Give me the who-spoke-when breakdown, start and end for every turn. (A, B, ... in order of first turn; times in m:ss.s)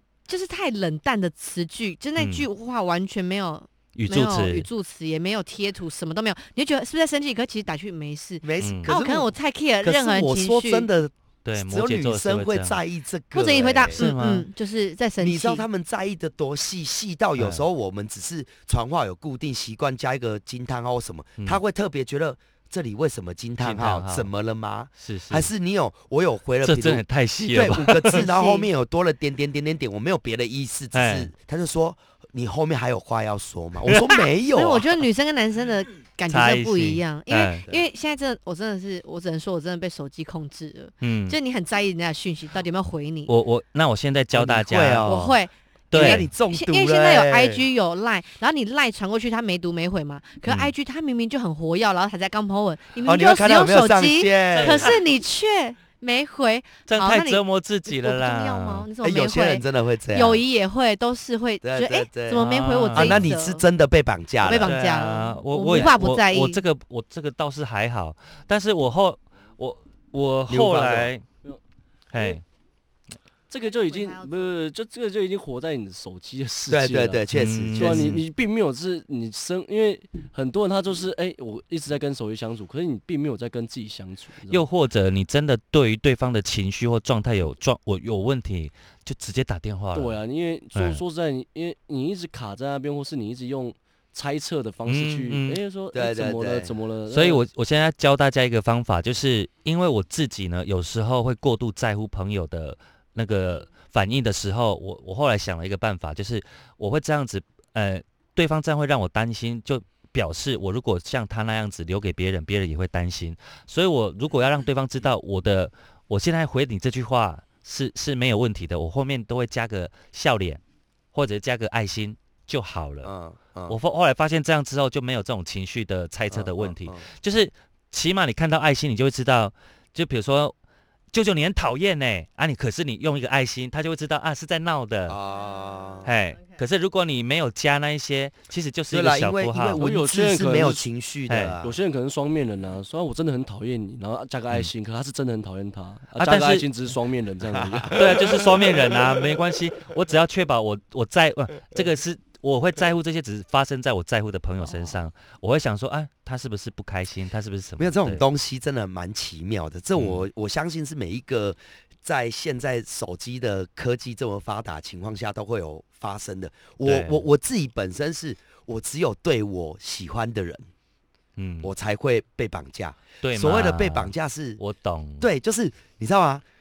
0:00.3-0:10.9 A
0:02.2-0:02.5 B
0:04.0-0:04.7 B
0:08.4-0:09.3 C
0:08.6-0:09.0 B
0:09.8-0:14.1 C
0:11.4-0:12.8 B
0:13.3-0:15.6 A
0:13.9-0:14.5 B
0:15.2-0:34.9 C
0:17.4-0:17.6 B
0:23.6-0:24.3 B
0:25.0-0:25.5 B
0:26.6-0:28.3 B
0:28.1-0:28.7 A
0:30.9-0:31.3 B
0:33.9-0:34.2 B
0:34.5-0:43.3 A
0:36.3-0:37.6 B
0:41.0-0:41.4 B
0:43.3-0:45.3 B
0:44.3-0:45.3 C
0:45.0-1:03.6 A
0:45.9-0:46.3 B
0:45.9-0:47.6 C
0:50.5-0:50.7 B
0:53.0-0:54.9 C
0:54.5-0:55.0 B
0:56.9-0:58.9 B
0:59.0-1:00.4 C
1:01.6-1:04.8 C
1:02.3-1:03.3 B
1:04.4-1:06.6 A
1:04.6-1:11.2 B
1:10.5-1:11.1 C
1:12.1-1:12.4 B
1:13.5-1:17.2 D
1:16.7-1:18.2 C
1:17.3-1:18.2 B
1:17.8-1:24.6 D
1:24.5-1:30.2 B
1:29.9-1:37.4 D
1:30.8-1:31.0 B
1:34.9-1:35.6 B
1:35.9-1:36.7 C
1:37.1-2:00.6 B
2:01.1-2:03.1 B
2:03.0-2:03.8 C
2:03.7-2:10.6 B
2:06.3-2:07.1 C
2:11.1-2:15.2 B
2:15.1-2:16.1 C
2:16.0-2:19.8 B
2:18.9-2:21.8 C
2:19.8-2:20.8 D
2:21.3-2:21.6 B
2:21.6-2:28.6 D
2:26.2-2:26.7 B
2:27.5-2:28.2 C
2:27.9-2:38.2 B
2:37.8-2:50.7 C
2:40.0-2:40.2 B
2:46.8-2:47.3 B
2:51.4-2:51.7 B
2:51.6-2:54.6 C
2:53.2-2:55.3 B
2:55.2-2:56.4 C